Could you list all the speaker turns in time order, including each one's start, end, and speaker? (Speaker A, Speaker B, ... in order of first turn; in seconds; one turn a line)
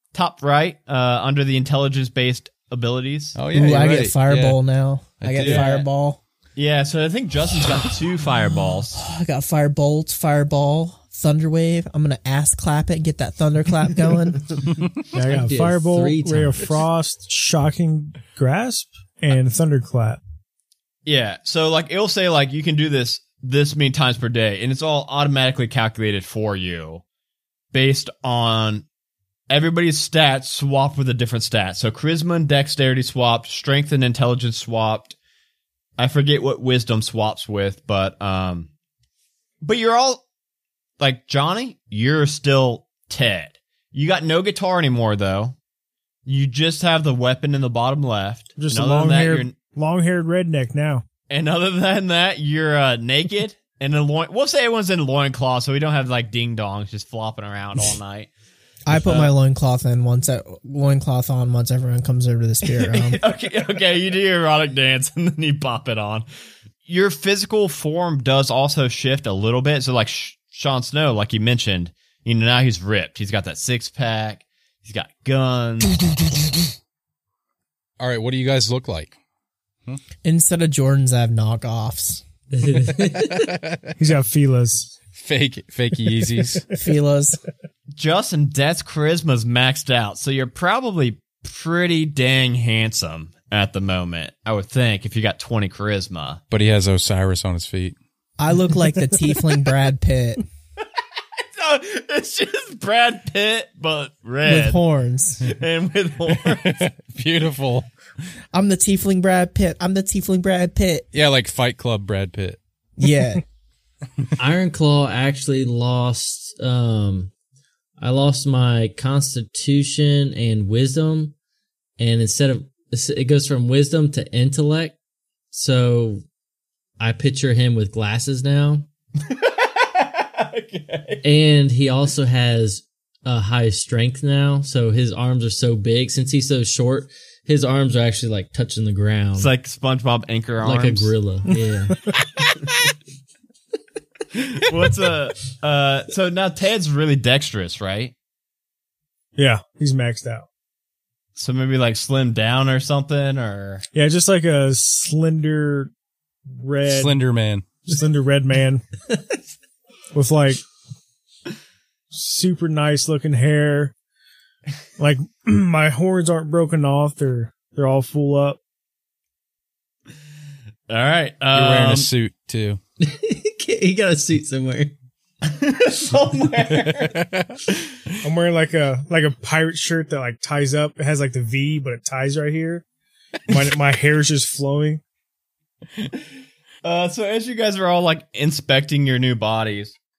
Speaker A: 0.1-3.4
Speaker B: 3.4-4.6
Speaker C: 3.5-6.2
Speaker B: 5.2-5.8
Speaker A: 5.4-5.9
Speaker A: 6.6-9.0
Speaker C: 9.0-14.4
Speaker D: 15.1-20.2
Speaker E: 15.3-16.7
Speaker A: 21.1-27.0
Speaker A: 27.7-28.9
Speaker A: 29.5-35.2
Speaker A: 36.0-38.7
Speaker A: 39.6-40.2
Speaker A: 41.0-45.6
Speaker A: 46.3-49.5
Speaker D: 48.6-51.0
Speaker A: 51.3-58.3
Speaker C: 58.9-63.2
Speaker A: 58.9-59.3
Speaker A: 62.7-66.3
Speaker A: 66.8-76.0
Speaker B: 78.0-79.2
Speaker C: 80.2-82.2
Speaker E: 82.5-83.5
Speaker B: 83.3-83.9
Speaker D: 84.0-85.0
Speaker B: 85.1-86.6
Speaker C: 86.8-87.4
Speaker A: 88.0-96.4
Speaker B: 96.5-98.0
Speaker C: 98.4-100.4
Speaker A: 101.6-104.8
Speaker C: 104.4-105.4
Speaker A: 105.4-106.8
Speaker B: 106.5-107.9
Speaker C: 108.5-111.1
Speaker B: 111.1-112.6
Speaker C: 113.0-113.4
Speaker E: 114.4-117.3
Speaker E: 118.0-121.3
Speaker E: 122.0-125.0
Speaker E: 125.5-126.2
Speaker E: 127.0-128.9
Speaker A: 129.2-131.2
Speaker E: 131.2-139.5
Speaker A: 139.4-141.1
Speaker E: 140.6-142.0
Speaker A: 144.3-148.1
Speaker D: 149.4-150.5
Speaker A: 151.4-153.8
Speaker D: 153.9-155.9
Speaker D: 156.5-157.2
Speaker B: 156.9-157.8
Speaker D: 157.8-158.8
Speaker D: 160.1-160.6
Speaker D: 162.1-163.9
Speaker D: 165.0-168.6
Speaker A: 170.9-172.1
Speaker B: 171.5-172.8
Speaker E: 173.0-175.0
Speaker A: 175.4-177.2
Speaker B: 176.8-177.6
Speaker D: 178.2-182.8
Speaker D: 183.5-185.0
Speaker A: 186.8-189.9